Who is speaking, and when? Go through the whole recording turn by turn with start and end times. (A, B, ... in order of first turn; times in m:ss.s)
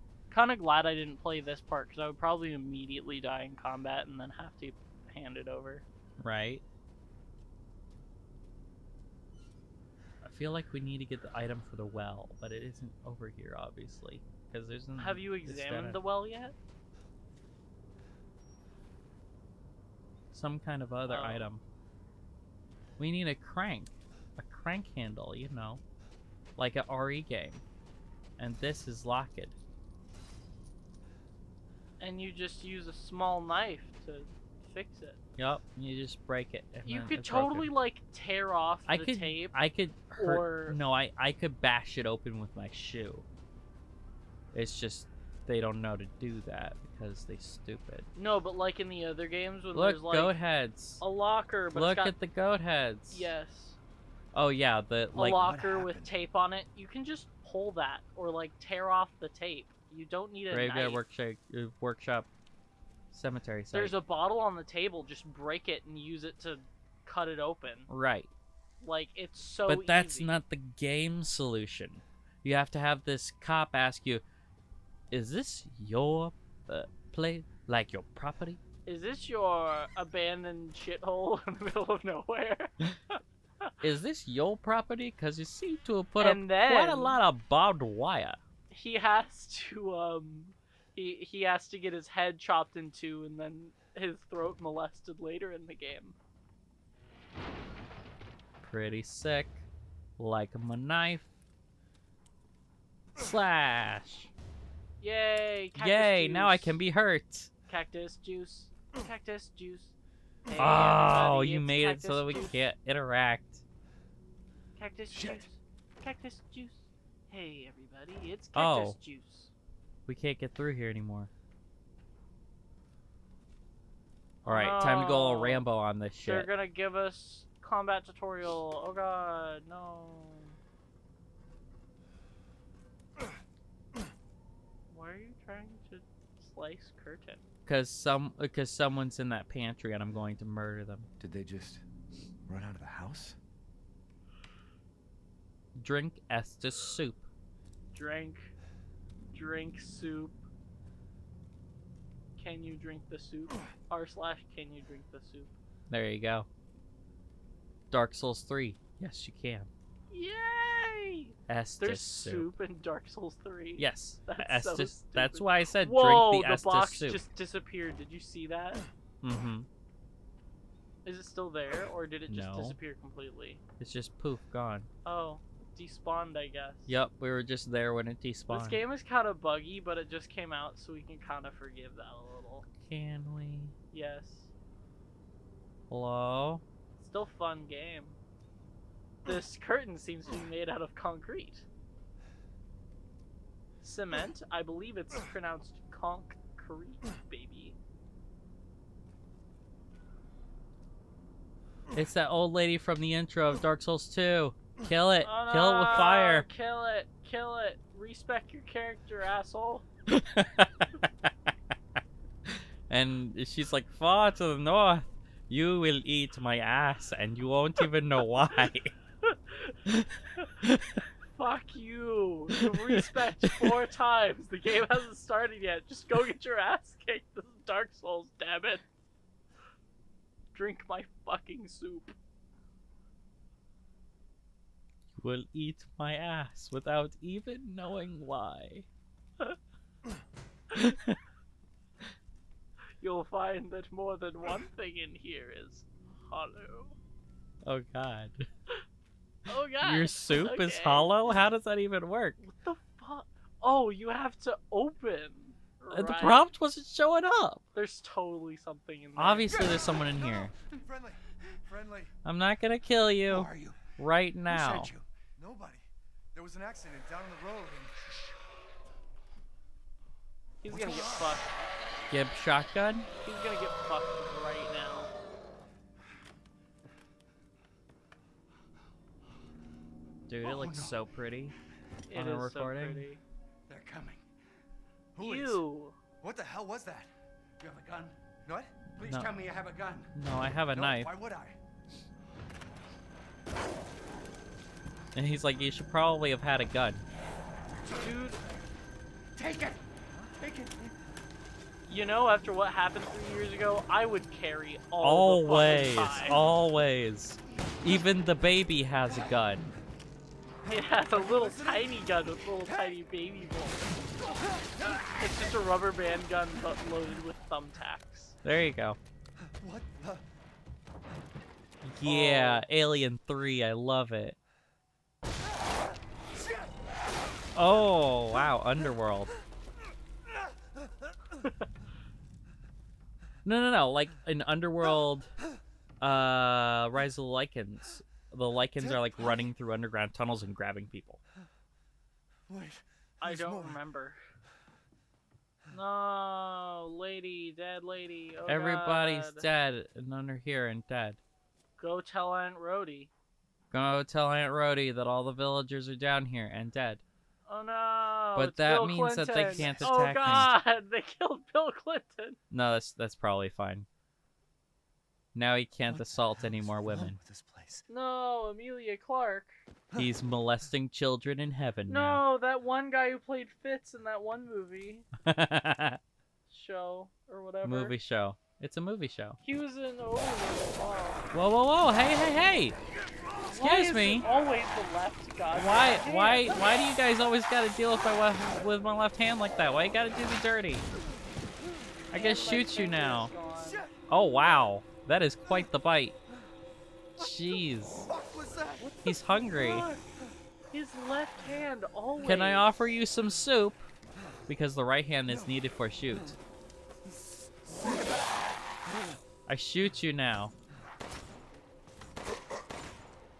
0:00.3-0:05.8 A
0:06.2-0:06.6 B
0:10.2-0:16.0 B
0:15.0-0:16.5 A
0:20.3-0:21.6 B
0:21.1-0:21.5 A
0:23.0-0:25.8 B
0:26.6-0:27.6 B
0:28.4-0:29.6 B
0:32.0-0:35.2 A
0:35.4-0:37.7 B
0:36.8-0:39.6 A
0:38.9-0:43.2 B
0:40.2-0:40.8 A
0:44.5-0:48.1 B
0:48.2-0:50.3 A
0:49.7-0:51.0 B
0:51.0-0:52.1 A
0:51.7-0:53.3 B
0:53.1-0:53.8 A
0:54.3-0:55.4 B
0:55.1-1:01.0 A
0:55.3-0:56.1 C
1:00.5-1:02.3 B
1:03.1-1:04.0 B
1:03.7-1:07.9 A
1:07.9-1:08.3 B
1:08.8-1:10.3 A
1:09.7-1:14.2 B
1:15.1-1:18.6 B
1:18.8-1:23.7 A
1:23.8-1:28.4 B
1:26.2-1:27.2 A
1:28.7-1:36.2 A
1:38.6-1:39.6 B
1:40.2-1:41.2 B
1:43.2-1:44.3 B
1:45.0-1:46.8 A
1:45.8-1:47.5 B
1:47.7-1:49.9 A
1:50.4-1:52.7 A
1:50.6-1:53.6 B
1:54.8-1:59.5 A
1:55.1-1:55.5 C
1:58.5-1:59.0 B
2:00.1-2:01.3 B
2:04.4-2:06.5 B
2:04.4-2:05.6 A
2:06.2-2:10.6 A
2:14.9-2:17.4 A
2:17.6-2:21.1 B
2:21.2-2:21.8 C
2:22.5-2:23.4 C
2:25.8-2:27.2 B
2:27.9-2:28.5 A
2:29.3-2:30.4 A
2:32.4-2:35.6 A
2:35.9-2:36.5 B
2:37.9-2:39.7 B
2:40.1-2:48.8 A
2:41.5-2:42.5 B
2:43.8-2:47.2 B
2:49.2-2:49.7 B
2:51.0-2:53.6 A
2:52.3-2:52.8 B
2:53.8-2:54.9 B
2:55.0-2:57.0 A
2:56.9-2:58.8 B
2:58.5-3:02.7 A
3:02.8-3:03.7 B
3:03.9-3:04.5 A
3:05.9-3:06.6 B
3:07.0-3:08.2 A
3:09.2-3:11.6 A
3:13.8-3:17.8 A
3:21.9-3:26.5 B
3:25.2-3:29.9 A
3:30.1-3:31.3 B
3:32.5-3:38.9 B
3:39.2-3:39.8 A
3:39.9-3:41.0 B
3:41.2-3:48.8 A
3:42.6-3:43.7 B
3:50.5-3:52.2 A
3:55.2-3:58.9 B
4:00.7-4:01.2 B
4:03.0-4:07.0 A
4:07.6-4:08.5 B
4:09.5-4:11.1 A
4:09.8-4:12.4 B
4:12.4-4:16.4 A
4:15.9-4:17.6 B
4:17.7-4:19.5 A
4:19.2-4:20.5 B
4:19.9-4:22.1 C
4:22.2-4:24.9 B
4:23.3-4:23.9 C
4:24.5-4:28.0 C
4:30.6-4:31.5 A
4:30.7-4:31.4 C
4:32.1-4:33.1 B
4:33.2-4:35.1 A
4:40.3-4:41.6 B
4:40.4-4:41.0 C
4:42.1-4:43.2 A
4:42.1-4:43.0 B
4:43.7-4:44.3 C
4:45.1-4:45.6 C
4:45.2-4:46.0 A
4:46.2-4:50.1 C
4:49.0-4:49.3 B
4:50.1-4:51.1 B
4:50.7-4:51.6 C
4:55.1-4:57.0 B
4:57.9-4:58.4 A
4:59.4-5:00.9 C
5:01.8-5:06.4 A
5:05.0-5:09.7 B
5:10.6-5:12.1 C
5:10.7-5:13.8 A
5:12.6-5:12.9 C
5:14.2-5:15.2 C
5:15.2-5:18.4 A
5:18.4-5:19.0 B
5:19.4-5:20.2 C
5:21.8-5:24.4 B
5:22.0-5:22.6 A
5:27.5-5:29.3 B
5:33.4-5:35.3 B
5:36.0-5:41.2 B
5:38.8-5:39.5 C
5:42.5-5:43.8 C
5:43.2-5:44.2 A
5:45.7-5:49.4 A
5:48.5-5:51.2 B
5:51.8-5:53.1 A
5:53.7-5:57.0 B
5:57.5-6:02.4 A
5:58.4-6:00.5 B
5:59.5-6:00.5 C
6:02.5-6:03.9 B
6:05.3-6:07.2 B
6:05.8-6:07.8 C
6:07.9-6:09.6 A
6:10.0-6:12.2 B
6:11.9-6:15.1 A
6:15.2-6:16.0 B
6:16.5-6:17.9 A
6:17.6-6:19.4 B
6:19.4-6:21.2 A
6:21.3-6:22.8 B
6:23.4-6:26.6 A
6:23.5-6:24.2 B
6:25.5-6:30.9 B
6:32.1-6:33.3 B
6:32.1-6:33.9 A
6:33.6-6:34.0 C
6:34.1-6:36.2 B
6:37.2-6:38.1 B
6:38.0-6:38.8 C
6:38.8-6:40.0 A
6:39.0-6:39.8 B
6:40.7-6:42.7 A
6:42.2-6:43.9 B
6:44.5-6:46.4 B
6:47.7-6:48.0 C
6:48.9-6:49.2 C
6:49.5-6:50.5 B